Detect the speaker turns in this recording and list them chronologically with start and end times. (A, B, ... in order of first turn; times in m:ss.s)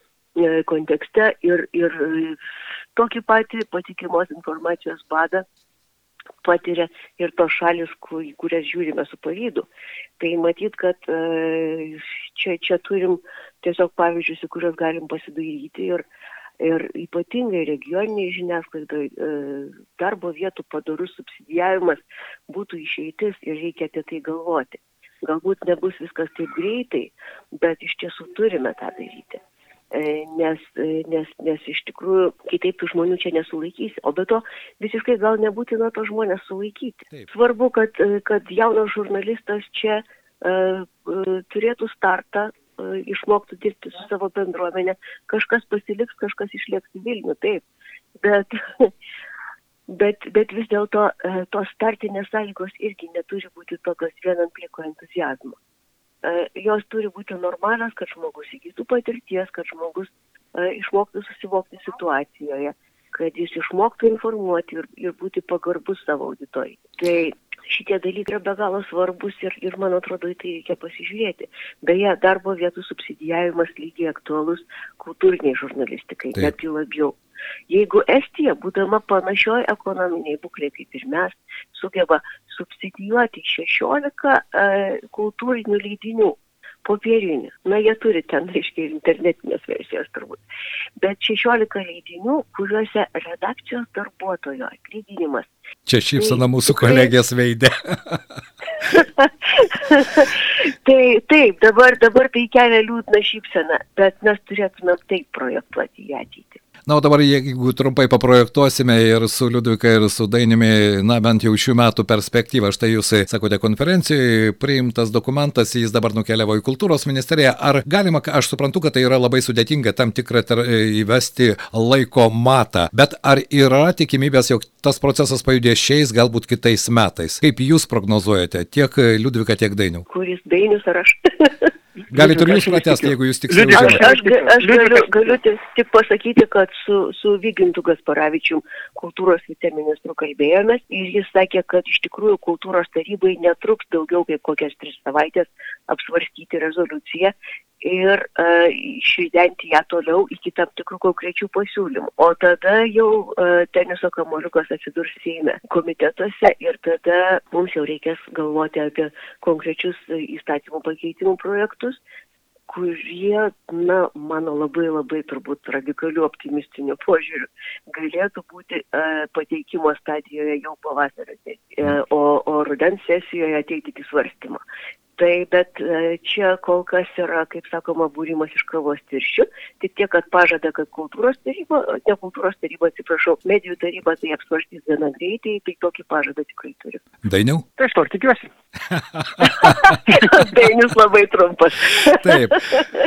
0:00.4-0:02.4 A
0:02.9-0:05.5 A
0:06.4-0:09.7 A
0:10.2-0:16.0 A
0:16.6-0:47.6 A
0:48.2-0:48.9 A
0:49.9-0:55.6 A
0:56.2-1:17.2 A
1:17.7-1:30.4 A
1:31.0-1:35.5 A
1:35.9-1:38.2 B
1:36.2-1:37.1 A
1:38.8-1:46.6 A
1:46.9-2:10.1 B
2:10.1-2:12.8 A
2:12.1-2:14.0 B
2:12.3-2:12.7 C
2:13.5-2:15.1 C
2:13.7-2:42.0 A
2:42.7-2:54.6 A
2:55.2-3:07.0 A
3:07.2-3:07.6 B
3:07.8-3:08.5 C
3:08.9-3:10.0 B
3:09.4-3:12.9 A
3:12.2-3:12.6 B